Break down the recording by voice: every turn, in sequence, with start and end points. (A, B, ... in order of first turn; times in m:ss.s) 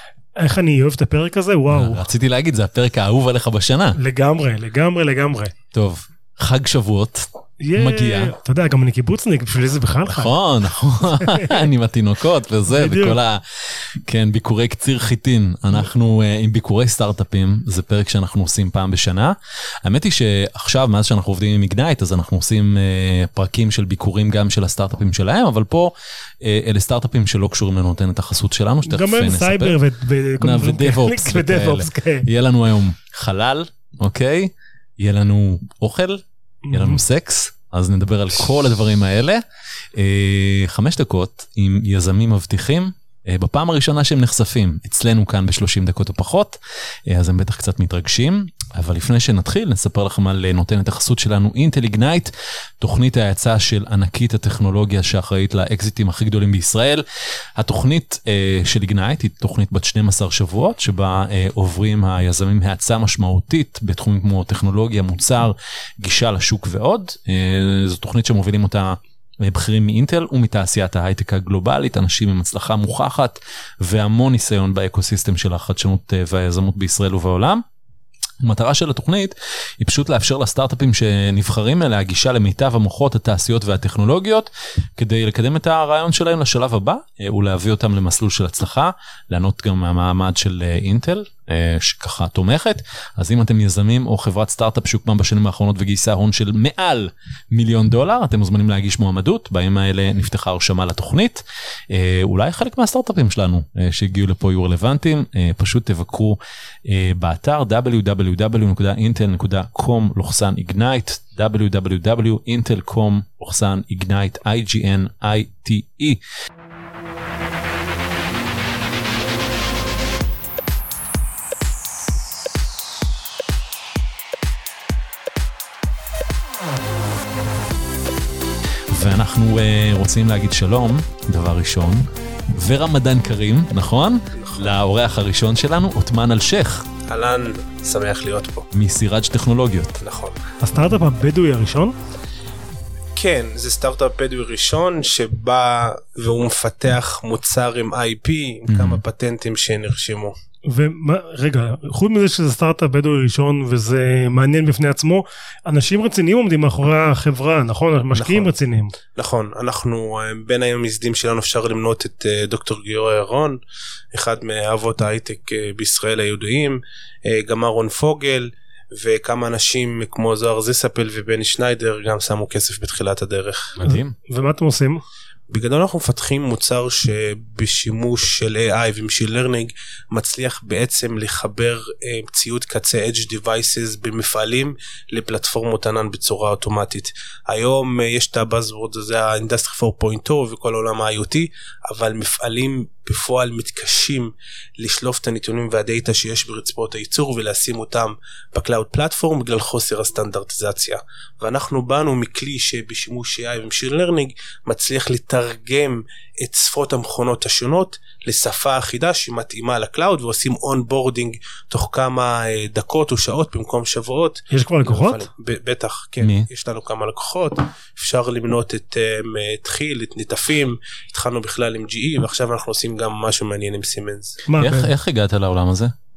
0:00.4-0:02.0 A
0:01.7-0:04.0 B
0:04.0-0:05.5 A
0:05.7-0:08.3 B
0:07.6-0:10.3 A
0:10.1-0:13.4 B
0:11.1-0:11.6 A
0:12.7-0:13.2 A
0:14.1-0:29.8 B
0:28.8-0:32.3 A
0:30.4-0:39.4 B
0:36.7-0:37.0 A
0:40.0-0:57.0 B
0:57.6-1:17.6 B
1:18.4-1:56.2 B
2:08.9-2:16.9 B
2:14.4-2:14.8 C
2:17.1-2:18.7 C
2:18.7-2:20.0 B
2:20.0-2:20.4 C
2:20.6-2:21.9 A
2:23.2-2:30.4 C
2:28.7-2:29.0 B
2:30.7-2:38.9 A
2:38.1-2:38.5 C
2:39.1-2:43.6 C
2:44.1-2:53.8 C
2:53.8-2:54.2 B
2:53.8-2:55.0 A
2:55.5-3:44.4 C
3:34.5-3:35.2 A
3:36.2-3:36.5 B
3:44.5-3:44.9 A
3:44.6-3:45.9 B